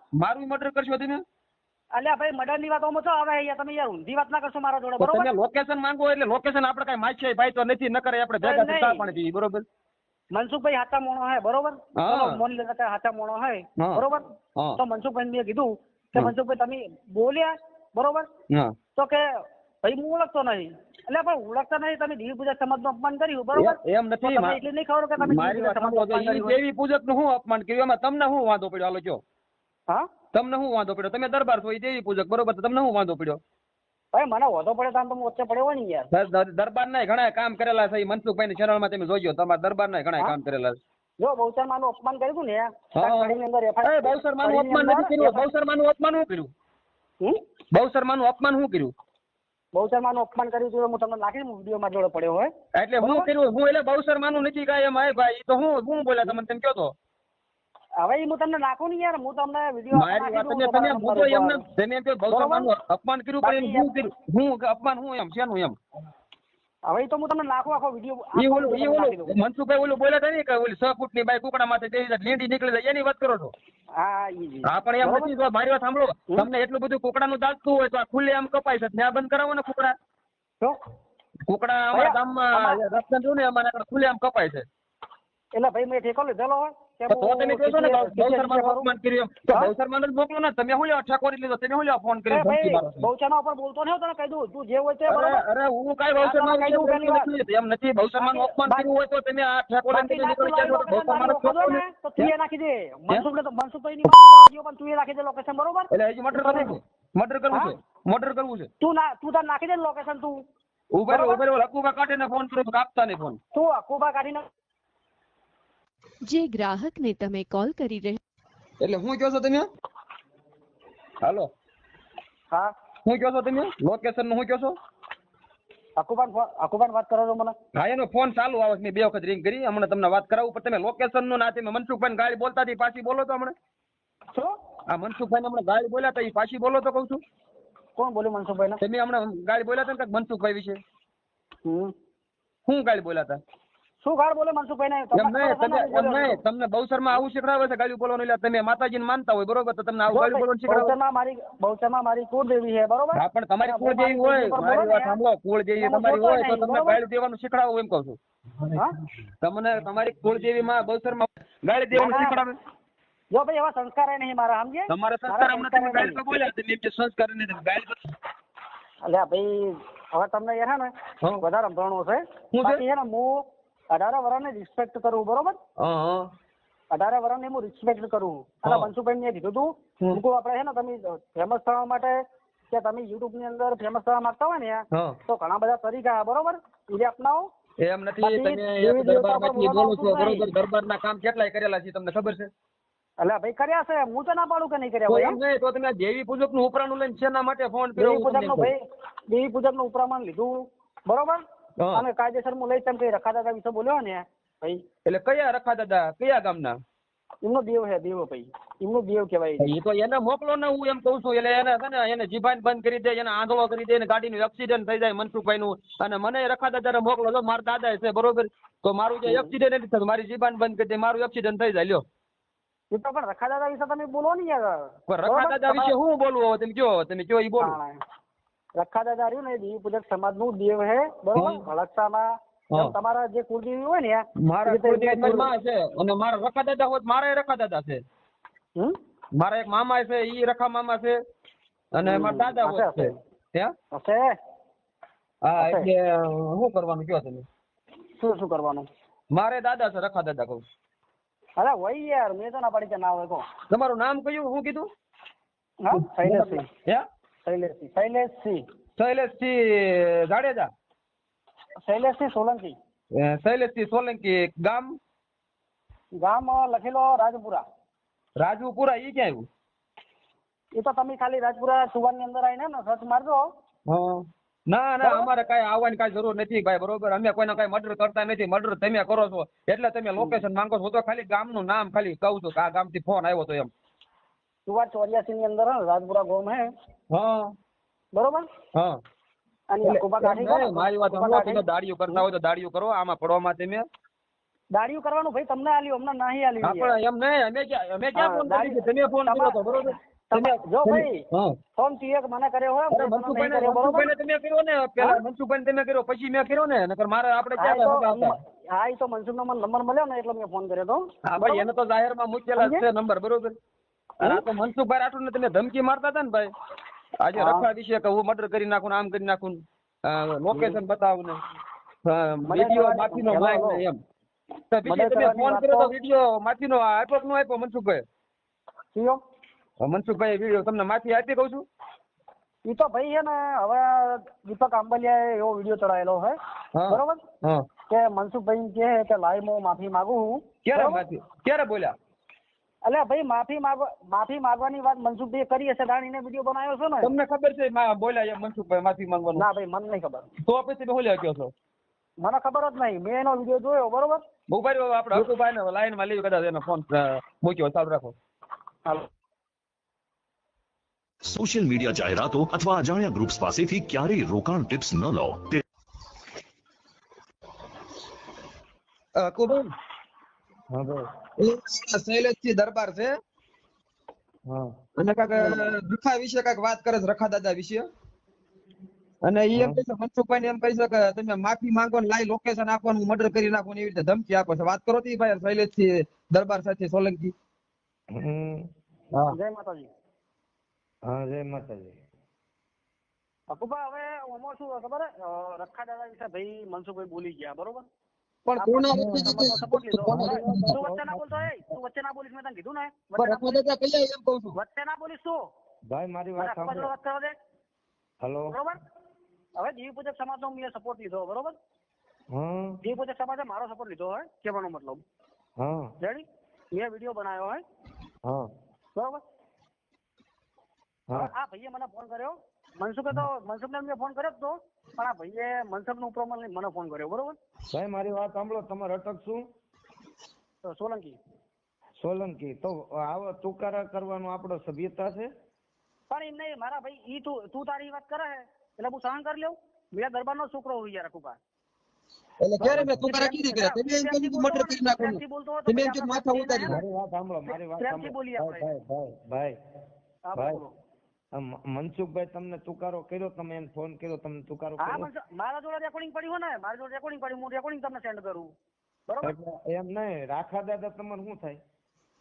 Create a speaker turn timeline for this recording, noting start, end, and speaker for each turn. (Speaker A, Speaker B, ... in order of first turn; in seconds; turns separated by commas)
Speaker A: 0.2-1.2, Speaker B: 1.9-5.3, Speaker A: 5.0-9.6, Speaker B: 8.4-9.1, Speaker B: 10.3-14.2, Speaker A: 12.0-12.4, Speaker B: 14.8-18.3, Speaker B: 18.9-19.2, Speaker B: 19.8-26.6, Speaker A: 23.5-24.6, Speaker A: 25.2-29.2, Speaker A: 30.3-33.4, Speaker B: 34.1-36.1, Speaker A: 36.1-40.8, Speaker B: 41.2-45.5, Speaker A: 43.0-46.5, Speaker A: 47.7-48.9, Speaker B: 49.7-53.3, Speaker A: 52.7-56.9, Speaker B: 58.0-61.6, Speaker A: 59.9-65.8, Speaker B: 62.3-62.7, Speaker B: 63.4-63.9, Speaker B: 66.9-69.4, Speaker A: 68.3-73.5, Speaker B: 74.0-75.3, Speaker A: 74.7-79.9, Speaker A: 81.5-84.7, Speaker B: 81.9-82.8, Speaker B: 85.5-88.9, Speaker A: 87.1-93.1, Speaker B: 92.3-95.4, Speaker A: 95.1-102.3, Speaker B: 96.2-97.3, Speaker B: 98.2-98.9, Speaker B: 99.9-106.8, Speaker A: 105.9-108.7, Speaker B: 108.8-110.3, Speaker A: 110.9-113.4, Speaker B: 111.1-111.4, Speaker B: 113.5-114.4, Speaker C: 116.2-118.2, Speaker A: 118.8-119.7, Speaker A: 121.2-121.5, Speaker A: 123.0-124.8, Speaker B: 126.0-127.5, Speaker A: 127.7-133.5, Speaker A: 134.9-137.2, Speaker B: 137.9-138.8, Speaker A: 138.8-140.8, Speaker B: 141.6-141.9, Speaker A: 142.7-143.4, Speaker B: 144.0-146.4, Speaker A: 145.1-150.9, Speaker B: 150.1-155.2, Speaker A: 153.1-158.8, Speaker B: 155.8-157.0, Speaker A: 159.4-162.5, Speaker B: 161.9-162.4, Speaker B: 163.3-166.2, Speaker A: 164.9-167.9, Speaker B: 169.1-173.4, Speaker A: 172.5-172.8, Speaker B: 173.9-175.6, Speaker A: 175.8-176.3, Speaker B: 176.9-182.2, Speaker A: 178.6-178.9, Speaker B: 182.7-187.4, Speaker A: 187.8-192.5, Speaker B: 188.2-190.5, Speaker B: 193.2-195.4, Speaker A: 195.1-198.7, Speaker B: 197.9-198.8, Speaker B: 199.3-201.4, Speaker B: 201.9-204.8, Speaker A: 205.1-206.8, Speaker B: 207.4-209.7, Speaker A: 209.6-222.0, Speaker B: 219.2-219.5, Speaker B: 222.9-225.9, Speaker A: 225.1-227.8, Speaker B: 227.6-228.0, Speaker B: 228.8-235.5, Speaker A: 231.3-231.6, Speaker A: 234.4-238.0, Speaker A: 239.3-241.2, Speaker A: 241.9-243.7, Speaker B: 242.0-243.1, Speaker B: 243.9-244.2, Speaker A: 245.4-247.4, Speaker B: 245.6-245.9, Speaker B: 248.2-248.8, Speaker A: 249.3-250.6, Speaker B: 251.6-253.4, Speaker A: 253.7-254.9, Speaker B: 255.8-256.6, Speaker A: 255.9-257.0, Speaker B: 257.4-258.6, Speaker A: 259.0-260.7, Speaker B: 261.9-262.7, Speaker A: 263.1-264.9, Speaker B: 266.2-267.6, Speaker A: 268.4-269.4, Speaker B: 270.8-273.4, Speaker A: 273.9-283.7, Speaker B: 275.0-275.3, Speaker B: 280.2-280.4, Speaker B: 284.7-286.7, Speaker A: 287.1-287.5, Speaker B: 288.1-288.4, Speaker B: 289.7-292.2, Speaker A: 289.8-293.8, Speaker B: 294.7-296.9, Speaker A: 296.6-301.5, Speaker B: 298.1-299.8, Speaker B: 300.3-301.2, Speaker B: 301.8-304.1, Speaker A: 302.9-308.4, Speaker B: 307.6-311.6, Speaker A: 311.3-313.5, Speaker B: 312.6-312.8, Speaker A: 314.2-316.5, Speaker A: 317.2-321.4, Speaker B: 317.3-317.6, Speaker B: 320.5-320.8, Speaker A: 322.0-324.0, Speaker B: 322.5-323.8, Speaker A: 324.7-328.0, Speaker B: 324.8-325.9, Speaker B: 328.9-329.2, Speaker A: 329.8-331.6, Speaker B: 332.6-336.4, Speaker A: 336.7-337.6, Speaker B: 336.9-337.2, Speaker B: 337.9-341.0, Speaker A: 340.6-341.9, Speaker B: 342.8-347.1, Speaker A: 347.0-349.4, Speaker B: 349.3-350.3, Speaker A: 350.4-351.5, Speaker B: 352.2-354.2, Speaker A: 354.5-358.1, Speaker D: 361.2-365.6, Speaker A: 369.2-369.7, Speaker E: 370.7-371.1, Speaker A: 371.4-373.1, Speaker E: 374.5-374.7, Speaker A: 375.0-377.8, Speaker A: 379.2-387.3, Speaker E: 379.5-379.8, Speaker E: 388.1-388.7, Speaker B: 389.3-389.9, Speaker E: 391.1-392.0, Speaker B: 393.5-397.8, Speaker A: 398.4-400.8, Speaker B: 398.6-403.6, Speaker E: 398.9-401.4, Speaker A: 403.2-404.6, Speaker B: 404.5-405.4, Speaker E: 405.9-406.9, Speaker B: 406.4-407.3, Speaker E: 408.2-408.6, Speaker B: 408.5-408.8, Speaker B: 409.6-411.5, Speaker E: 412.3-412.8, Speaker B: 412.8-415.0, Speaker E: 415.6-415.9, Speaker B: 416.0-417.6, Speaker B: 418.9-419.2, Speaker B: 421.1-427.4, Speaker E: 427.7-429.5, Speaker B: 430.6-431.2, Speaker E: 432.0-435.3, Speaker B: 436.1-441.4, Speaker A: 442.4-446.8, Speaker E: 442.6-443.1, Speaker B: 443.0-446.8, Speaker E: 446.6-449.6, Speaker B: 447.8-448.7, Speaker B: 450.3-450.7, Speaker E: 450.4-450.6, Speaker E: 451.3-455.1, Speaker B: 454.8-458.5, Speaker B: 459.1-459.3, Speaker E: 459.2-461.6